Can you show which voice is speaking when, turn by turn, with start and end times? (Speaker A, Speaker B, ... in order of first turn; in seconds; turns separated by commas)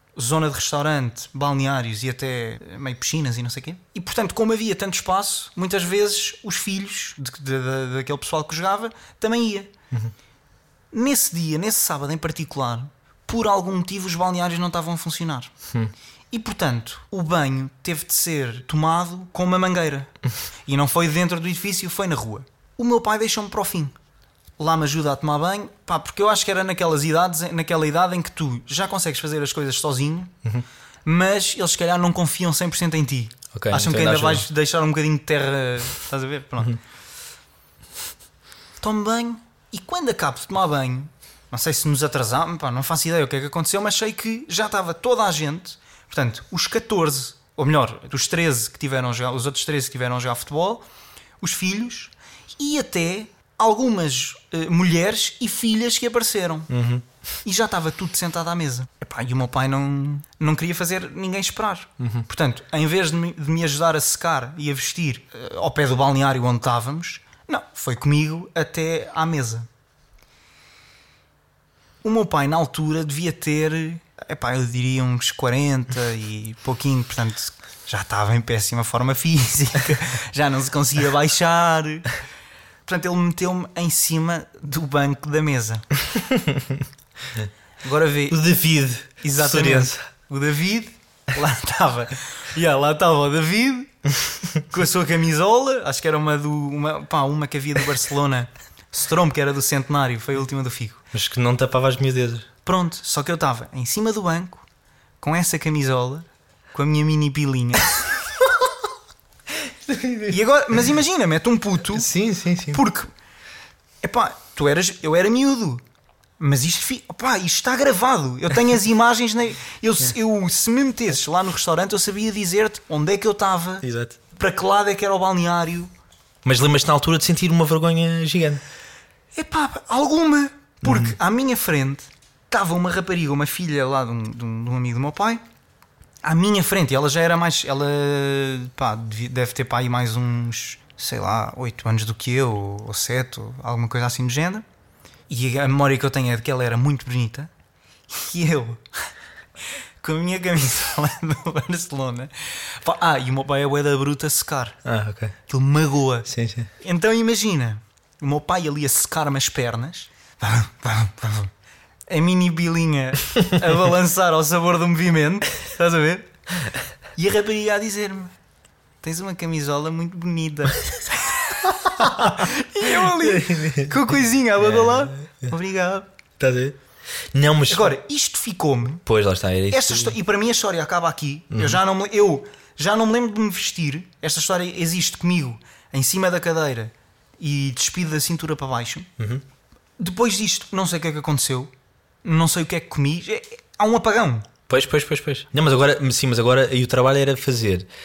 Speaker A: 0.1-9.7, Speaker A: 10.9-15.5, Speaker A: 16.3-20.1, Speaker A: 20.7-23.9, Speaker A: 24.6-30.3, Speaker A: 31.1-36.8, Speaker B: 33.5-34.5, Speaker A: 38.8-50.8, Speaker A: 51.4-56.7, Speaker B: 56.7-57.1, Speaker A: 57.4-69.7, Speaker B: 62.0-62.2, Speaker A: 72.0-82.2, Speaker A: 82.9-85.9, Speaker B: 86.2-86.8, Speaker A: 87.8-88.4, Speaker B: 88.3-90.0, Speaker A: 89.2-101.0, Speaker B: 101.1-102.5, Speaker A: 102.6-104.6, Speaker A: 105.2-108.0, Speaker B: 109.7-110.4, Speaker A: 110.3-112.1, Speaker B: 111.9-112.8, Speaker A: 112.7-113.1, Speaker A: 114.0-115.8, Speaker A: 116.4-125.9, Speaker B: 123.8-124.2, Speaker B: 126.4-128.6, Speaker A: 129.3-135.4, Speaker B: 130.8-131.2, Speaker A: 136.2-144.6, Speaker A: 145.3-147.5, Speaker A: 148.1-148.8, Speaker A: 150.0-154.8, Speaker B: 154.8-155.4, Speaker A: 155.5-156.3, Speaker B: 156.3-156.7, Speaker A: 156.8-161.5, Speaker A: 162.1-166.3, Speaker A: 167.2-168.3, Speaker A: 169.0-176.1, Speaker B: 171.7-174.1, Speaker B: 174.6-175.5, Speaker B: 176.4-176.8, Speaker B: 177.3-177.9, Speaker A: 177.7-179.0, Speaker B: 179.1-180.1, Speaker A: 179.7-189.1, Speaker B: 181.5-181.8, Speaker B: 189.2-189.4, Speaker A: 190.0-191.7, Speaker A: 192.2-194.5, Speaker B: 194.7-197.9